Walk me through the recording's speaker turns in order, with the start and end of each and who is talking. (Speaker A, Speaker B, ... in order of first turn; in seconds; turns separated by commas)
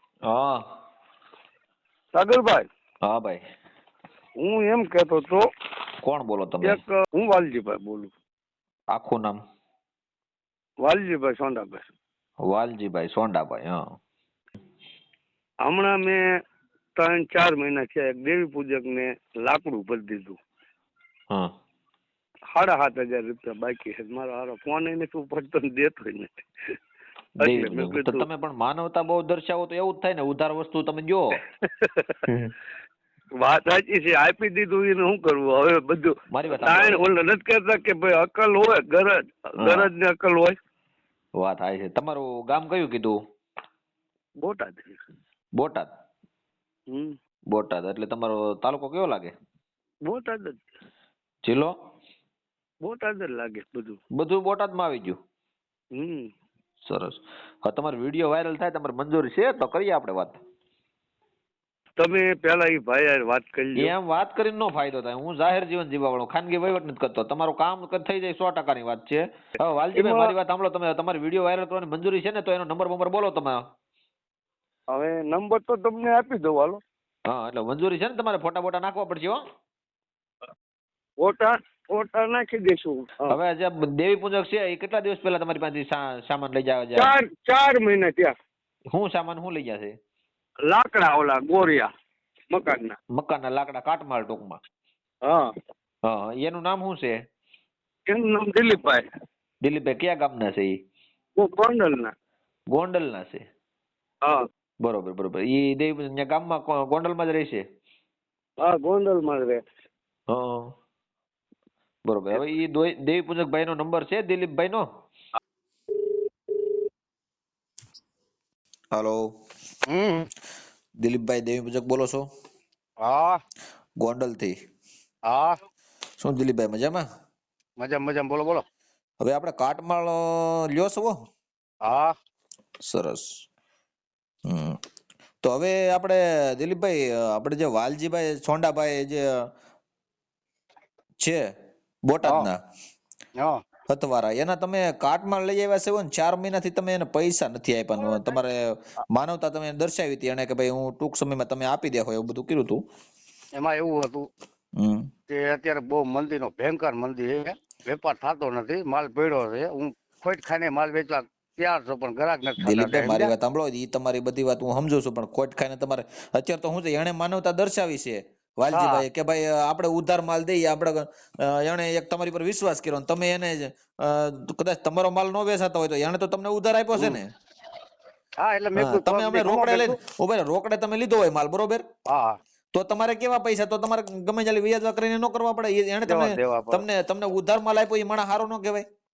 Speaker A: 0.2-0.6, Speaker B: 2.1-2.6, Speaker A: 3.0-3.4, Speaker B: 4.4-5.5, Speaker A: 6.0-6.8, Speaker B: 6.6-8.1, Speaker A: 8.9-9.4, Speaker B: 10.8-11.9, Speaker A: 12.4-13.8, Speaker B: 15.6-16.2, Speaker B: 16.9-20.4, Speaker B: 22.5-26.4, Speaker A: 27.4-31.4, Speaker B: 27.4-28.3, Speaker B: 31.8-32.2, Speaker A: 32.3-32.5, Speaker B: 33.3-40.5, Speaker A: 36.3-37.1, Speaker A: 39.6-39.9, Speaker A: 41.4-43.2, Speaker B: 44.4-45.0, Speaker A: 45.5-45.9, Speaker B: 46.9-47.1, Speaker A: 47.5-49.3, Speaker B: 50.0-50.6, Speaker A: 51.4-51.7, Speaker B: 52.8-54.0, Speaker A: 54.1-55.2, Speaker B: 55.9-56.3, Speaker A: 56.8-60.4, Speaker B: 62.0-63.9, Speaker A: 63.8-73.6, Speaker B: 70.0-70.3, Speaker B: 74.9-76.8, Speaker A: 77.2-79.4, Speaker B: 81.2-83.4, Speaker A: 83.3-87.1, Speaker B: 87.0-88.3, Speaker A: 88.9-89.9, Speaker B: 90.6-91.9, Speaker B: 92.5-93.0, Speaker A: 93.1-94.6, Speaker B: 95.2-95.5, Speaker A: 96.0-97.2, Speaker B: 98.1-99.0, Speaker A: 99.6-100.8, Speaker B: 101.3-102.1, Speaker A: 102.7-103.4, Speaker A: 104.8-107.6, Speaker B: 108.6-109.6, Speaker A: 110.3-110.7, Speaker A: 112.0-114.8, Speaker A: 118.9-119.3, Speaker C: 119.9-120.3, Speaker A: 121.0-122.2, Speaker C: 123.0-123.4, Speaker A: 124.0-124.5, Speaker C: 125.2-125.5, Speaker A: 126.2-127.0, Speaker C: 127.8-128.6, Speaker A: 129.2-131.1, Speaker C: 131.8-132.1, Speaker A: 132.8-133.2, Speaker A: 134.4-134.8, Speaker A: 135.4-139.2, Speaker A: 142.1-142.6, Speaker C: 142.2-142.5, Speaker A: 143.9-152.8, Speaker C: 153.5-154.3, Speaker A: 154.8-155.1, Speaker C: 155.3-163.3, Speaker A: 162.6-177.3, Speaker C: 168.7-169.0, Speaker C: 176.9-177.2, Speaker C: 178.4-180.0, Speaker A: 178.8-181.8, Speaker C: 182.1-182.4, Speaker A: 182.7-188.8, Speaker C: 186.0-186.8